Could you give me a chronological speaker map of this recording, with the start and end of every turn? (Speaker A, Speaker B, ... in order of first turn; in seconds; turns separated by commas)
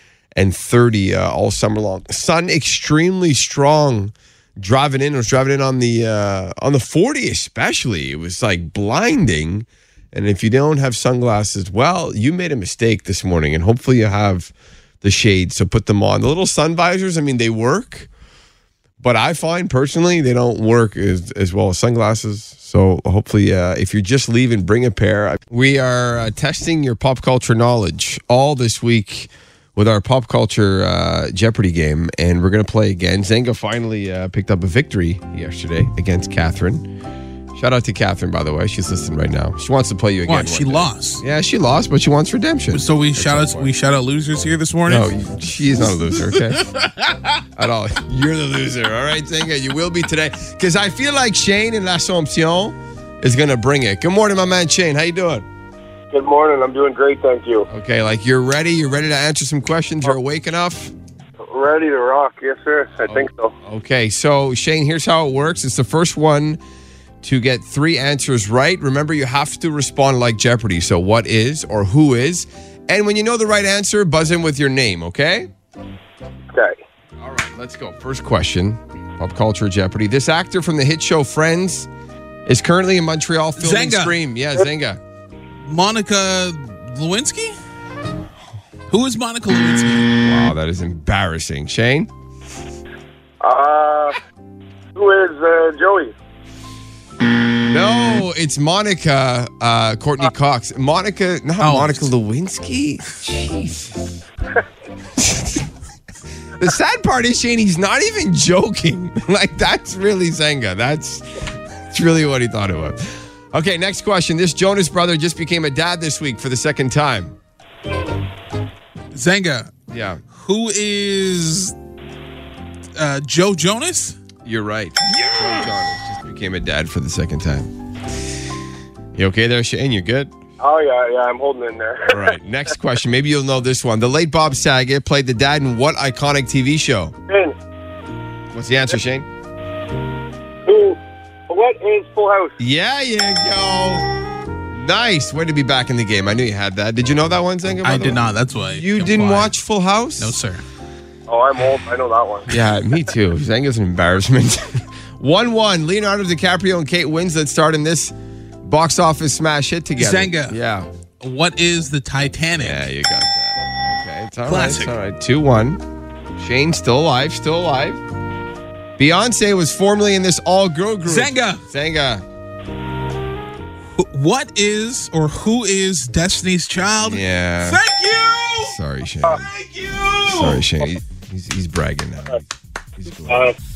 Speaker A: 0.3-18.1, Speaker A: 19.0-36.9, Speaker A: 37.5-43.7, Speaker B: 40.2-41.2, Speaker B: 42.7-45.1, Speaker A: 44.9-46.7, Speaker B: 46.2-47.4, Speaker A: 47.6-55.5, Speaker C: 56.1-57.7, Speaker A: 57.7-60.9, Speaker C: 61.4-63.5, Speaker A: 63.1-66.6, Speaker A: 67.2-75.5, Speaker A: 77.2-81.9, Speaker A: 82.5-85.0, Speaker B: 83.6-84.2, Speaker B: 85.6-87.6, Speaker B: 88.9-90.1, Speaker A: 90.2-92.1, Speaker C: 93.4-94.2, Speaker C: 94.9-96.1, Speaker A: 97.7-104.1, Speaker B: 101.6-102.1, Speaker A: 105.2-105.7, Speaker A: 106.6-111.4, Speaker A: 111.9-117.3, Speaker B: 119.1-119.7, Speaker A: 119.9-120.2, Speaker B: 120.3-121.8, Speaker B: 123.0-124.2, Speaker A: 124.4-127.7, Speaker A: 129.1-130.3, Speaker C: 130.6-132.3, Speaker A: 132.1-137.1, Speaker C: 137.3-137.6, Speaker A: 138.5-139.3, Speaker C: 140.7-142.5, Speaker A: 142.6-144.1, Speaker A: 144.7-150.3, Speaker B: 147.8-149.5, Speaker B: 150.2-150.6, Speaker C: 151.3-152.4, Speaker A: 152.5-158.1, Speaker A: 158.6-160.9, Speaker B: 160.0-160.6, Speaker B: 161.2-162.8, Speaker A: 162.6-165.8, Speaker B: 164.4-164.9, Speaker A: 166.4-168.0, Speaker A: 169.0-172.2, Speaker B: 171.0-171.6, Speaker B: 173.9-178.8, Speaker A: 177.0-177.8, Speaker A: 178.6-179.4, Speaker B: 179.4-180.6, Speaker A: 180.2-182.4, Speaker A: 183.0-183.5